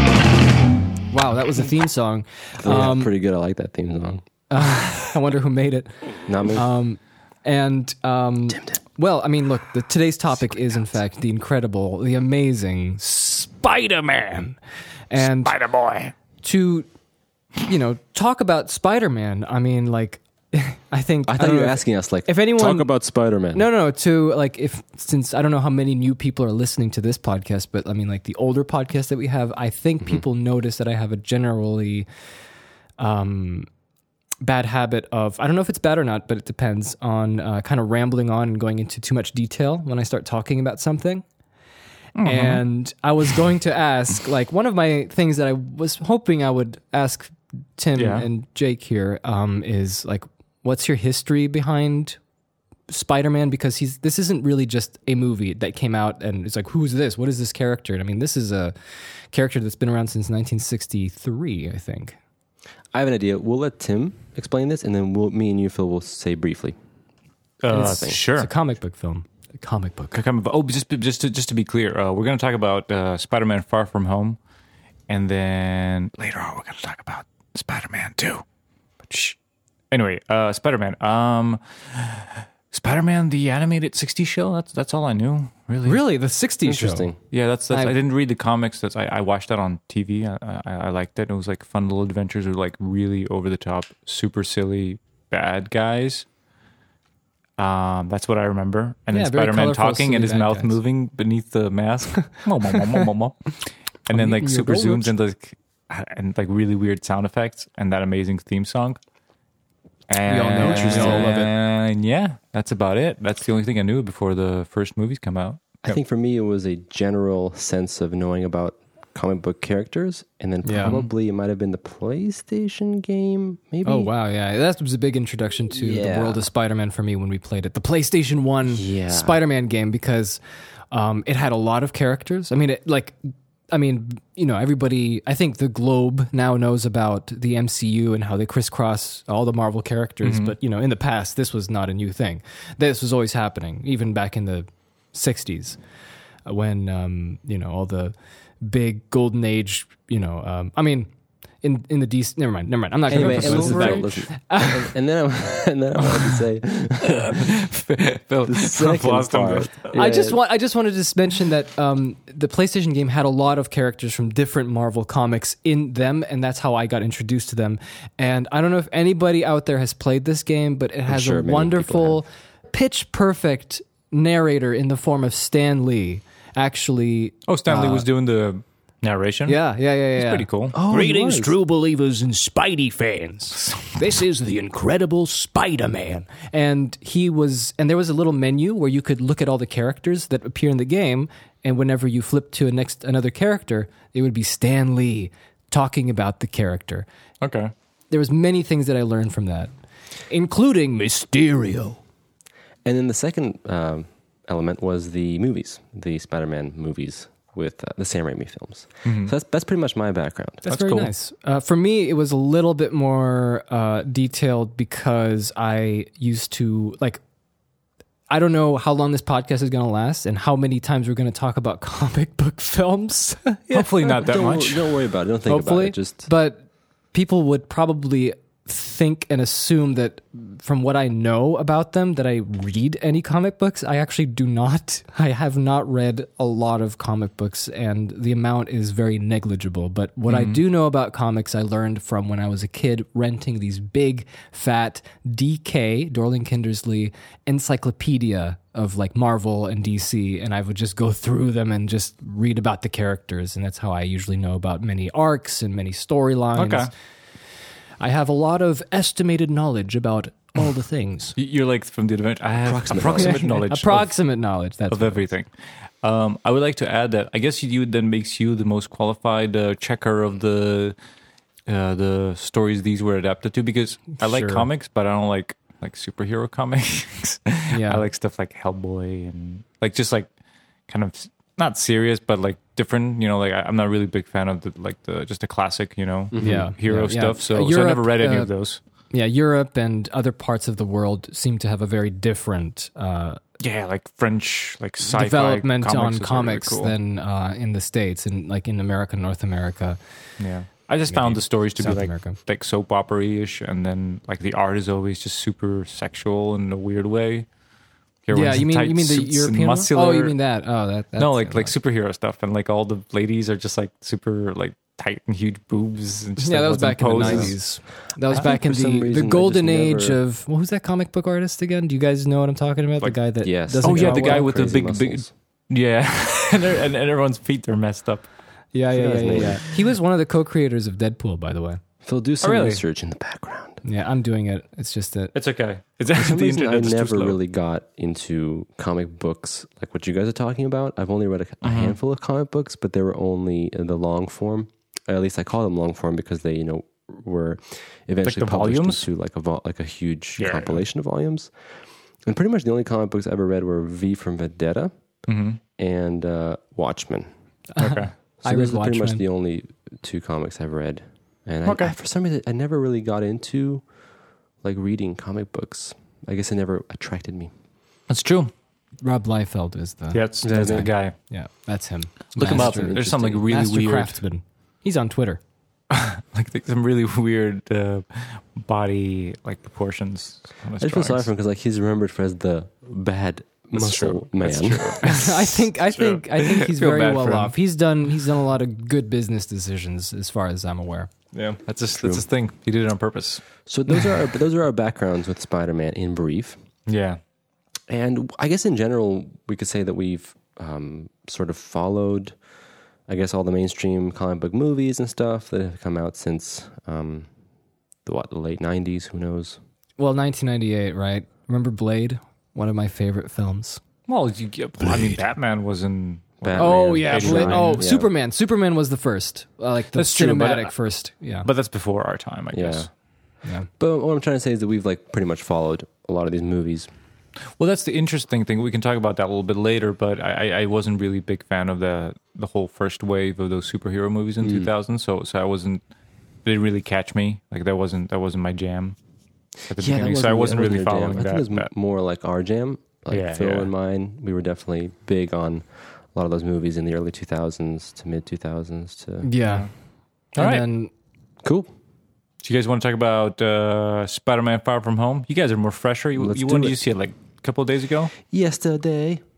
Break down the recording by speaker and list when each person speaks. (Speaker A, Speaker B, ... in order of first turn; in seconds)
Speaker A: 1.1-3.1, 4.5-14.6, 15.1-15.6, 16.4-16.9, 17.6-22.9, 23.5-32.1, 33.0-33.7, 34.4-41.2, 42.2-52.2, 52.9-62.2, 67.7-70.1, 85.8-87.1, 87.7-88.0, 99.1-100.8, 104.1-105.1, 110.3-111.5, 120.6-121.0, 123.8-130.4, 130.9-133.2, 133.7-145.8, 146.4-154.9, 159.9-178.1, 179.5-181.6, 184.0-184.3, 185.3-197.1, 198.1-199.7, 200.3-202.0, 210.7-217.2, 218.3-223.9, 225.5-256.9, 258.0-261.4, 263.1-265.2, 274.2-274.7, 277.7-278.1, 286.4-288.5, 289.1-293.4, 295.0-300.0, 301.1-302.4, 308.3-311.7, 316.4-324.5, 328.7-331.8, 333.8-335.3, 357.8-359.2, 369.0-375.4, 385.0-391.1, 410.0-413.8, 416.6-421.5, 423.4-423.7, 449.2-450.9
Speaker B: 2.6-4.2, 6.3-6.7, 21.3-23.7, 62.9-66.8, 67.7-68.2, 86.7-87.2, 110.6-111.3, 115.8-124.1, 125.7-126.4, 128.7-129.4, 153.1-157.5, 158.5-160.4, 171.1-172.2, 180.7-181.6, 202.8-210.6, 224.1-226.2, 262.6-263.6, 286.3-286.7, 317.1-317.6, 318.3-320.2, 323.4-325.3, 328.9-329.6, 332.0-333.8, 336.1-351.5, 352.2-354.9, 355.8-357.3, 358.4-364.0, 364.6-367.5, 370.4-370.9, 372.4-373.4, 380.8-385.2, 391.9-392.3, 393.7-396.6, 397.9-402.4, 403.1-407.3, 408.1-409.6, 416.4-418.1, 422.5-422.9, 423.8-426.9, 434.4-434.7, 439.7-449.3, 451.4-451.7, 456.1-456.8, 458.2-459.2
Speaker C: 15.2-16.1, 42.1-42.6, 48.0-48.3, 67.6-68.5, 70.1-74.4, 75.1-78.4, 79.0-79.4, 79.9-86.0, 87.3-96.3, 97.6-109.0, 110.1-116.0, 120.8-121.1, 140.2-140.6, 153.1-154.1, 157.2-159.9, 177.5-180.8, 197.4-197.7, 209.1-209.3, 210.7-211.1, 223.7-224.9, 240.3-240.6, 256.6-256.9, 261.4-271.0, 271.7-280.3, 280.9-288.8, 293.6-296.9, 300.4-307.5, 308.2-310.4, 311.2-318.5, 323.0-328.3, 329.2-329.5, 332.4-332.8, 335.3-337.4, 341.6-342.0, 348.2-349.1, 350.4-350.8, 355.2-355.6, 357.8-358.1, 361.6-361.9, 368.1-368.5, 370.1-371.1, 372.4-374.2, 375.9-381.3, 383.7-387.6, 391.3-393.4, 396.9-397.2, 414.1-417.9, 419.9-422.9, 427.6-435.8, 436.4-439.0, 439.6-441.7, 443.1-443.7, 449.4-449.7, 450.4-450.6, 452.4-458.1
Speaker D: 181.2-186.1